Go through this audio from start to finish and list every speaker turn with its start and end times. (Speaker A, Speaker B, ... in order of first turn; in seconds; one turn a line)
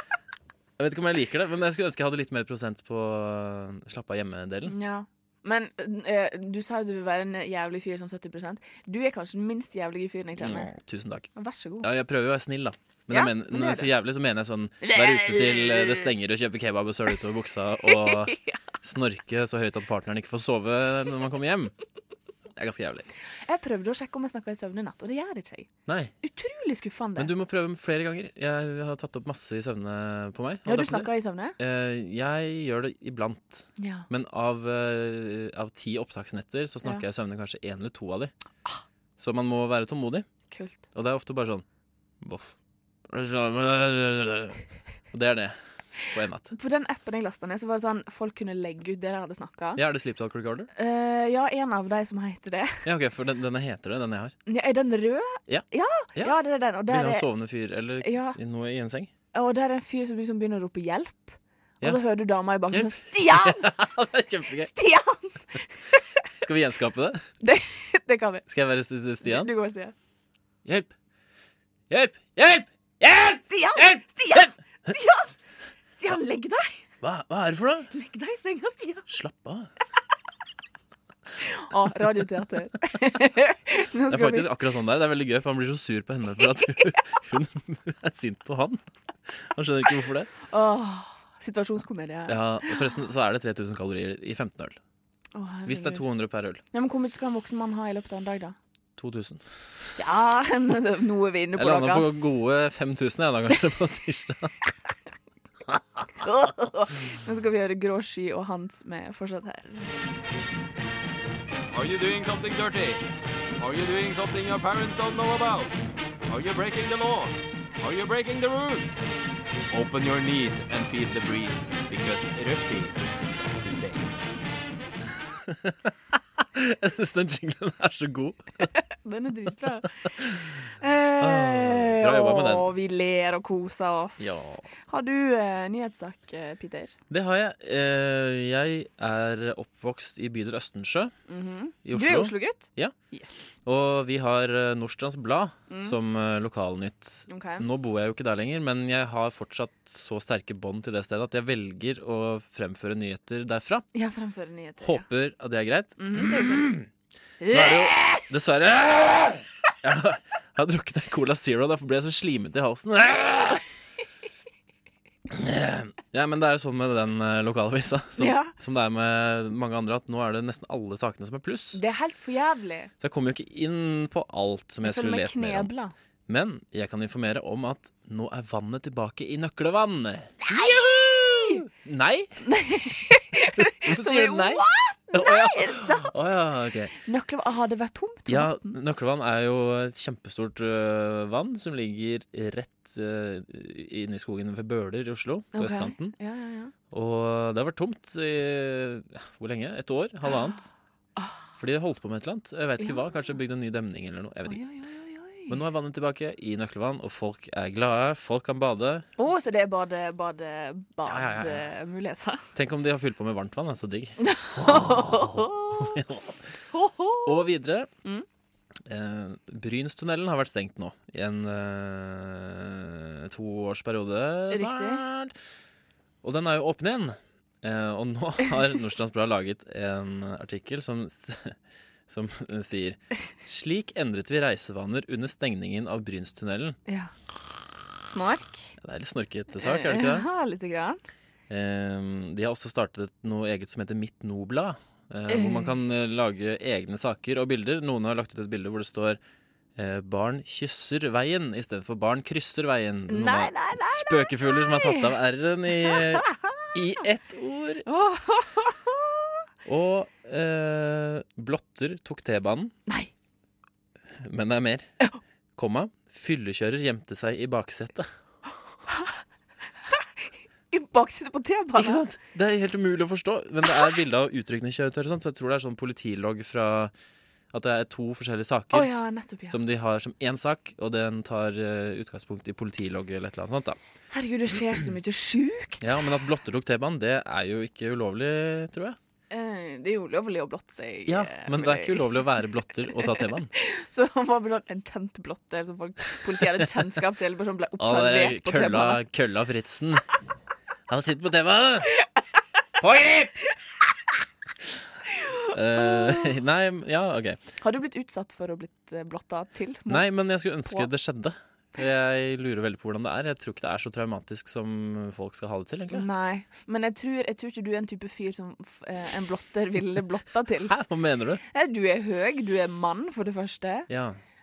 Speaker A: 0.8-4.8
Speaker B: 4.7-10.7
Speaker A: 10.4-11.3
Speaker B: 11.3-11.9
Speaker A: 11.8-21.7
Speaker B: 13.1-13.9
Speaker B: 14.8-16.1
Speaker B: 17.9-18.6
Speaker A: 22.6-23.1
Speaker B: 23.4-25.7
Speaker A: 25.9-26.1
Speaker B: 26.2-27.3
Speaker A: 27.2-38.3
Speaker B: 30.7-31.6
Speaker B: 33.8-34.1
Speaker A: 39.2-40.3
Speaker B: 40.5-40.8
Speaker A: 40.9-41.6
Speaker A: 42.2-42.5
Speaker A: 43.1-45.6
Speaker A: 46.1-46.5
Speaker B: 46.5-49.8
Speaker A: 49.8-50.7
Speaker B: 50.8-52.8
Speaker A: 52.9-54.4
Speaker B: 54.5-57.3
Speaker A: 55.5-56.4
Speaker A: 56.9-59.1
Speaker B: 58.0-58.4
Speaker B: 59.3-63.7
Speaker A: 62.7-64.7
Speaker B: 64.6-66.0
Speaker A: 66.4-67.3
Speaker B: 67.4-68.5
Speaker A: 68.5-69.5
Speaker B: 69.2-69.9
Speaker A: 70.7-70.9
Speaker A: 71.9-74.5
Speaker B: 73.5-75.3
Speaker B: 76.0-76.8
Speaker A: 77.0-77.9
Speaker B: 77.9-79.1
Speaker A: 79.1-79.7
Speaker B: 81.4-84.5
Speaker A: 84.1-90.3
Speaker B: 90.4-92.8
Speaker A: 92.3-94.8
Speaker B: 95.3-96.1
Speaker A: 95.7-96.6
Speaker B: 96.7-98.6
Speaker A: 99.0-99.9
Speaker B: 100.0-102.4
Speaker A: 101.6-104.5
Speaker B: 106.2-109.9
Speaker C: 111.7-113.0
Speaker C: 113.6-119.0
Speaker C: 119.7-124.1
Speaker A: 125.5-128.7
Speaker B: 128.8-130.1
Speaker A: 130.2-130.5
Speaker B: 130.8-136.9
Speaker A: 131.2-132.7
Speaker A: 134.2-134.7
Speaker A: 137.1-141.1
Speaker B: 141.3-143.6
Speaker A: 141.8-142.9
Speaker A: 143.7-153.8
Speaker B: 145.7-145.9
Speaker B: 147.3-147.7
Speaker B: 153.9-155.1
Speaker A: 154.8-156.9
Speaker B: 156.0-156.7
Speaker B: 157.4-158.2
Speaker A: 157.5-163.6
Speaker A: 165.3-171.8
Speaker B: 168.2-168.5
Speaker B: 171.7-172.9
Speaker A: 173.0-175.7
Speaker B: 174.8-175.9
Speaker A: 176.3-182.4
Speaker B: 180.4-181.6
Speaker B: 182.4-186.1
Speaker A: 183.6-186.9
Speaker B: 187.0-188.8
Speaker A: 188.3-196.2
Speaker B: 195.5-196.7
Speaker A: 196.9-200.7
Speaker B: 201.2-201.4
Speaker A: 201.6-204.6
Speaker B: 204.5-205.6
Speaker A: 205.5-209.1
Speaker B: 209.2-212.4
Speaker A: 211.1-211.7
Speaker A: 212.6-216.4
Speaker B: 214.2-216.0
Speaker B: 216.7-217.3
Speaker A: 217.2-217.9
Speaker A: 218.9-225.3
Speaker B: 224.5-225.0
Speaker A: 226.2-231.6
Speaker A: 232.1-236.8
Speaker B: 236.9-237.1
Speaker B: 238.0-238.7
Speaker A: 238.8-240.3
Speaker B: 239.6-241.0
Speaker A: 241.5-249.2
Speaker B: 245.3-245.8
Speaker A: 249.8-257.9
Speaker B: 253.1-255.1
Speaker B: 255.8-256.4
Speaker B: 257.9-259.1
Speaker A: 259.6-262.7
Speaker A: 264.2-264.9
Speaker A: 265.6-268.1
Speaker B: 268.9-269.2
Speaker B: 270.7-272.0
Speaker A: 271.8-276.9
Speaker A: 277.5-278.9
Speaker B: 278.7-279.6
Speaker A: 279.5-283.8
Speaker B: 284.1-286.0
Speaker A: 285.8-289.0
Speaker B: 289.3-292.3
Speaker A: 291.1-293.5
Speaker B: 292.9-299.0
Speaker A: 296.4-296.6
Speaker A: 297.8-300.1
Speaker A: 300.9-301.9
Speaker A: 302.8-303.3
Speaker A: 305.5-307.4
Speaker B: 305.8-306.3
Speaker B: 307.6-310.9
Speaker A: 309.9-316.1
Speaker B: 315.9-320.8
Speaker A: 320.7-321.4
Speaker B: 321.5-323.9
Speaker A: 323.9-324.2